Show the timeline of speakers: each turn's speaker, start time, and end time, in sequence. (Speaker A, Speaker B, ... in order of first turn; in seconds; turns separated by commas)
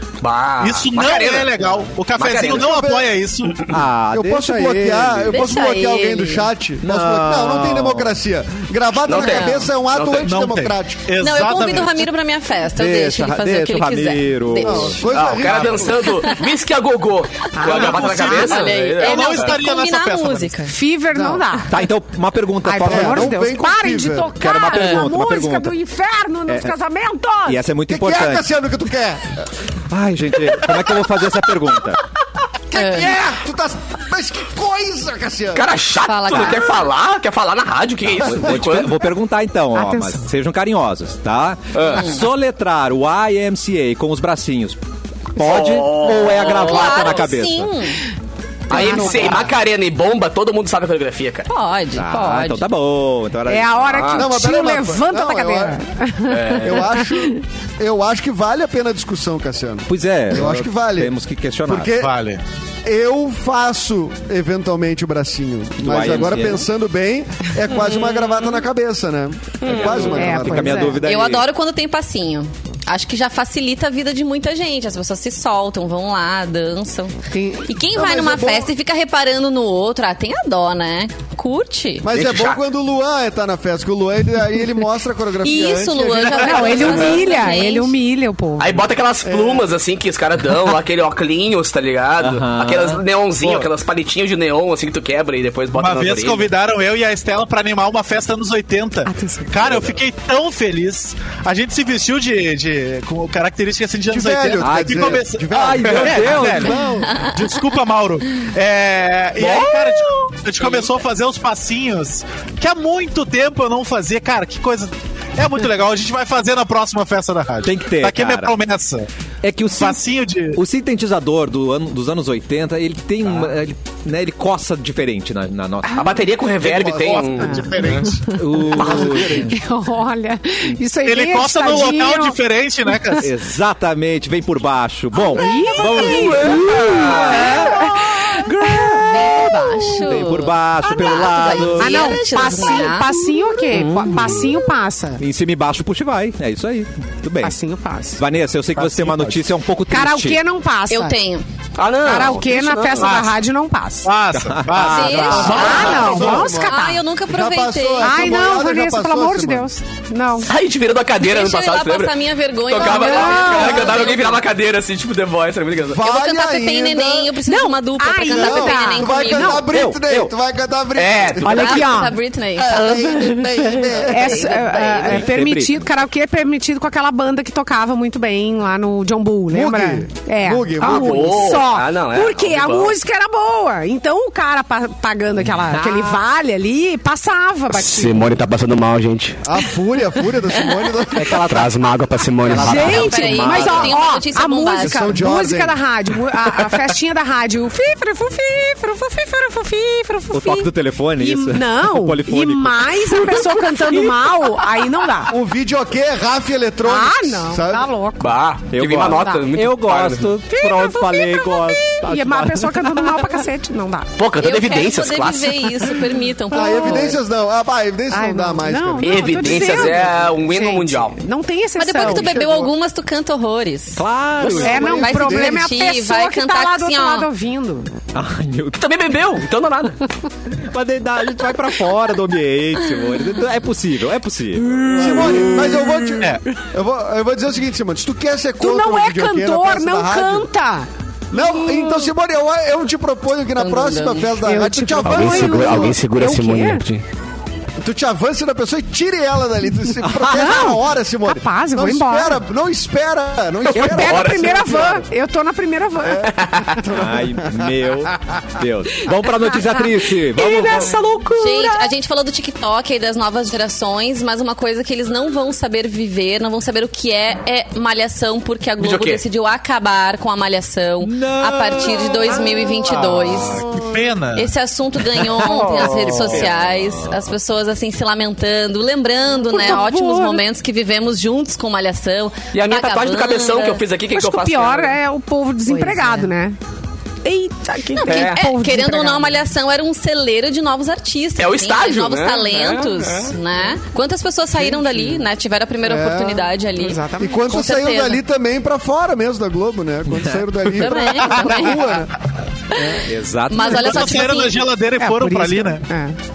Speaker A: 0.2-2.7, Speaker B: 0.6-3.7, Speaker C: 2.6-3.1, Speaker D: 3.7-5.5, Speaker C: 4.1-11.1, Speaker E: 5.3-6.5, Speaker D: 6.8-8.2, Speaker A: 9.0-10.3, Speaker E: 9.1-9.7, Speaker B: 10.2-12.1, Speaker E: 11.2-15.0, Speaker D: 12.8-15.0, Speaker C: 14.6-16.2, Speaker A: 15.1-19.6, Speaker B: 15.3-15.9, Speaker E: 16.1-16.4, Speaker F: 17.5-18.6, Speaker B: 17.6-20.6, Speaker E: 17.8-20.7, Speaker F: 20.7-21.7, Speaker C: 21.1-21.4, Speaker D: 21.7-23.4, Speaker F: 22.6-27.6, Speaker C: 22.9-24.3, Speaker D: 24.4-25.7, Speaker D: 26.5-26.7, Speaker D: 27.4-28.5, Speaker C: 27.9-29.5, Speaker D: 29.9-32.0, Speaker C: 32.7-35.7, Speaker E: 32.7-33.2, Speaker A: 35.5-39.0, Speaker E: 36.1-36.8, Speaker D: 38.1-44.8, Speaker F: 39.7-40.3, Speaker A: 41.7-42.2, Speaker E: 41.9-42.2, Speaker D: 45.4-47.8, Speaker A: 45.4-47.3, Speaker E: 46.4-48.0, Speaker C: 48.7-49.5, Speaker A: 48.7-51.5, Speaker F: 48.7-49.4, Speaker E: 51.5-52.6, Speaker D: 52.0-54.2, Speaker F: 53.5-57.4, Speaker A: 53.9-54.3, Speaker C: 54.1-55.8, Speaker A: 56.3-56.9, Speaker C: 56.6-62.1, Speaker D: 59.9-62.0, Speaker B: 62.0-62.4, Speaker C: 62.9-71.0, Speaker D: 65.8-66.7, Speaker A: 69.6-70.1, Speaker D: 69.7-71.5, Speaker F: 70.1-71.0, Speaker E: 71.0-77.1, Speaker F: 77.3-77.7, Speaker E: 77.7-82.1, Speaker C: 77.9-78.7, Speaker C: 82.0-87.2, Speaker A: 82.1-82.6, Speaker E: 85.4-88.0, Speaker F: 86.4-88.7, Speaker A: 88.6-96.5, Speaker C: 89.2-89.7, Speaker D: 92.2-93.0, Speaker B: 93.4-93.7, Speaker B: 95.8-119.1, Speaker F: 99.1-99.5, Speaker C: 104.1-107.1, Speaker D: 104.6-106.8, Speaker E: 107.0-107.8, Speaker A: 110.6-110.9, Speaker D: 117.6-118.5, Speaker D: 119.4-120.0, Speaker B: 119.8-120.6, Speaker D: 120.5-126.2, Speaker A: 126.0-128.2, Speaker C: 126.6-128.2, Speaker B: 126.7-128.0, Speaker F: 127.4-133.2, Speaker D: 128.3-129.6, Speaker C: 128.7-129.6, Speaker A: 128.8-129.2, Speaker B: 131.0-133.3, Speaker D: 133.2-137.8, Speaker F: 135.2-139.6, Speaker A: 135.8-137.7, Speaker E: 138.8-143.4, Speaker D: 139.8-142.5, Speaker F: 141.8-145.2, Speaker A: 143.8-144.3, Speaker D: 145.2-147.6, Speaker F: 147.4-148.2, Speaker D: 148.2-150.4, Speaker B: 148.8-149.4, Speaker F: 149.9-151.2, Speaker E: 150.9-151.4, Speaker A: 151.8-153.2, Speaker F: 152.0-154.1, Speaker B: 153.0-153.4, Speaker B: 154.0-156.1, Speaker D: 154.3-156.1, Speaker E: 154.8-158.6, Speaker C: 155.3-159.7, Speaker F: 155.3-157.0, Speaker F: 158.0-160.5, Speaker A: 160.5-166.1, Speaker E: 161.2-164.4, Speaker F: 162.8-164.0, Speaker C: 163.9-164.4, Speaker C: 165.9-167.4, Speaker E: 166.0-169.7, Speaker F: 167.5-169.7, Speaker C: 168.3-171.7, Speaker D: 169.6-170.3, Speaker A: 170.9-171.8, Speaker F: 171.4-172.2, Speaker E: 171.5-172.9, Speaker C: 172.6-174.5, Speaker F: 172.7-188.3, Speaker E: 174.3-175.2, Speaker D: 175.1-175.8, Speaker C: 179.5-181.6, Speaker A: 180.8-183.0, Speaker A: 187.9-188.4, Speaker G: 187.9-189.4, Speaker C: 189.4-191.5, Speaker D: 191.1-191.9, Speaker G: 191.4-192.7, Speaker D: 192.4-194.0, Speaker F: 192.5-205.3, Speaker E: 192.5-195.2, Speaker C: 194.8-195.8, Speaker D: 200.3-204.5, Speaker C: 205.3-207.9, Speaker F: 206.8-208.4, Speaker A: 208.2-210.3, Speaker D: 208.7-213.4, Speaker F: 209.2-209.4, Speaker F: 210.5-214.1, Speaker A: 214.2-215.9, Speaker E: 214.4-217.2, Speaker C: 216.5-219.8, Speaker F: 218.1-222.7, Speaker A: 219.0-221.2, Speaker E: 221.8-224.0, Speaker C: 222.0-222.7, Speaker D: 224.0-225.2, Speaker F: 224.5-227.9, Speaker C: 224.6-225.6, Speaker E: 224.9-227.3, Speaker D: 228.1-228.9, Speaker A: 228.8-230.0, Speaker D: 230.5-236.2, Speaker C: 234.9-240.5, Speaker F: 238.6-240.9, Speaker C: 241.3-245.9, Speaker E: 243.6-244.4, Speaker F: 244.4-246.8, Speaker G: 245.0-247.0, Speaker C: 247.8-255.1, Speaker F: 250.2-252.4, Speaker A: 253.7-254.5, Speaker F: 253.7-256.6, Speaker C: 256.0-257.9, Speaker A: 256.4-256.7, Speaker D: 256.9-261.0, Speaker A: 260.4-261.9, Speaker F: 260.4-261.1, Speaker E: 261.2-273.8, Speaker A: 268.8-269.2, Speaker D: 271.0-273.8, Speaker B: 273.9-274.5, Speaker E: 274.4-283.8, Speaker D: 275.2-277.2, Speaker A: 275.7-276.4, Speaker F: 279.5-280.4, Speaker A: 282.5-285.0, Speaker F: 284.1-286.6, Speaker E: 285.7-286.2, Speaker F: 287.2-289.4, Speaker E: 288.0-298.2, Speaker A: 288.1-288.4, Speaker A: 291.4-293.4, Speaker C: 295.8-296.5, Speaker F: 296.8-297.4, Speaker C: 297.2-302.2, Speaker D: 300.1-300.4, Speaker E: 300.7-302.0, Speaker C: 302.7-303.1, Speaker E: 302.8-304.7, Speaker D: 303.0-304.0, Speaker B: 303.6-305.9, Speaker F: 305.0-306.1